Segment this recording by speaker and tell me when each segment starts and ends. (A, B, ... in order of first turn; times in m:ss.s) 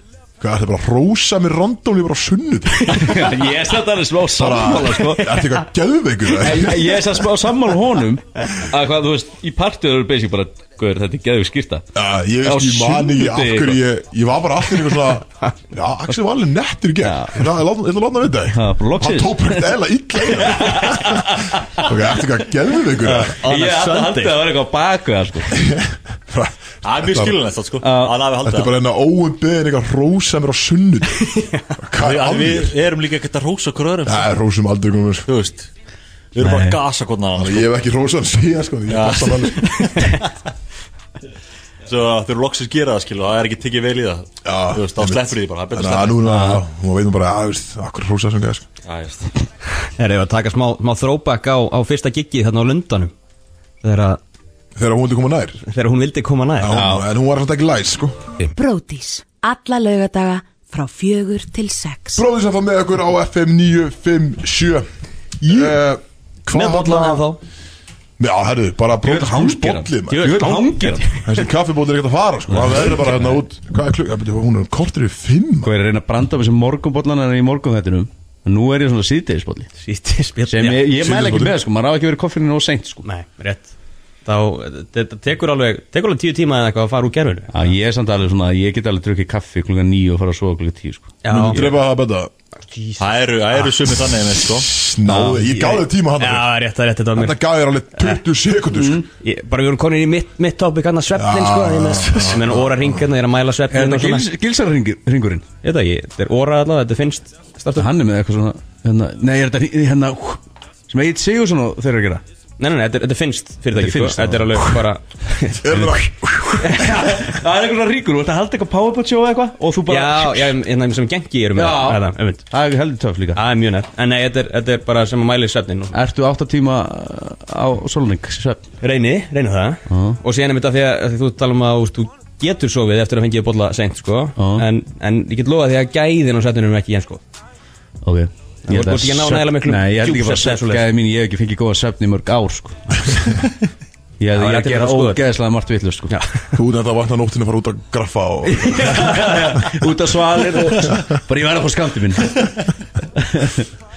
0:00.4-0:03.3 A
0:02.9-0:05.6 B
0:04.3-0:07.3 A
0:06.4-0:11.8 B
0:11.9-0:23.4 A
0:12.4-0:13.8 B
0:17.0-0:17.4 B
0:18.5-0:21.9 B
0:23.1-0:24.4 C
0:23.1-0:25.6 B
0:25.5-0:27.4 A
0:26.8-0:28.7 D
0:27.8-0:28.2 B
0:28.4-0:32.8 A
0:31.3-0:31.6 C
0:32.0-0:34.3 D
0:34.0-0:35.3 A
0:35.3-0:35.7 D
0:36.3-0:37.7 D
0:36.4-0:36.8 B
0:37.4-0:39.9 A
0:38.9-0:40.2 D
0:41.8-0:46.2 D
0:44.4-0:48.6 A
0:46.2-0:46.6 B
0:48.8-0:49.3 D
0:50.0-0:53.1 C
0:53.8-0:54.2 C
0:54.7-0:55.6 A
0:55.6-0:56.8 C
0:56.6-0:58.2 A
0:56.7-0:57.0 B
0:58.5-1:02.2 E
1:02.2-1:04.8 A
1:05.4-1:07.2 A
1:06.5-1:07.4 C
1:08.2-1:10.4 A
1:09.0-1:11.0 B
1:10.1-1:11.3 C
1:11.2-1:15.7 A
1:12.5-1:13.3 B
1:15.6-1:19.7 B
1:19.8-1:20.8 C
1:20.5-1:23.0 B
1:20.9-1:21.6 A
1:23.0-1:23.7 C
1:24.2-1:27.7 C
1:27.5-1:31.2 B
1:31.2-1:31.6 C
1:31.3-1:32.3 A
1:32.7-1:33.1 C
1:33.0-1:34.7 D
1:34.3-1:36.5 A
1:35.1-1:35.6 B
1:35.6-1:37.4 C
1:37.1-1:39.0 A
1:38.7-1:39.1 B
1:39.2-1:44.3 C
1:41.1-1:43.0 A
1:43.7-1:45.4 B
1:45.6-1:47.9 C
1:47.8-1:52.2 B
1:52.6-1:55.8 C
1:53.7-1:54.8 B
1:55.6-1:56.8 A
1:56.6-1:57.3 C
1:56.8-2:00.5 B
1:59.9-2:02.4 C
2:01.6-2:03.4 B
2:03.3-2:06.0 C
2:05.9-2:08.6 B
2:08.8-2:17.2 C
2:09.9-2:10.2 B
2:14.4-2:14.6 B
2:18.0-2:22.9 B
2:18.7-2:20.8 C
2:24.2-2:26.1 B
2:24.3-2:25.2 C
2:26.1-2:26.5 C
2:26.5-2:29.2 A
2:28.5-2:32.5 B
2:29.0-2:29.5 C
2:33.2-2:33.7 B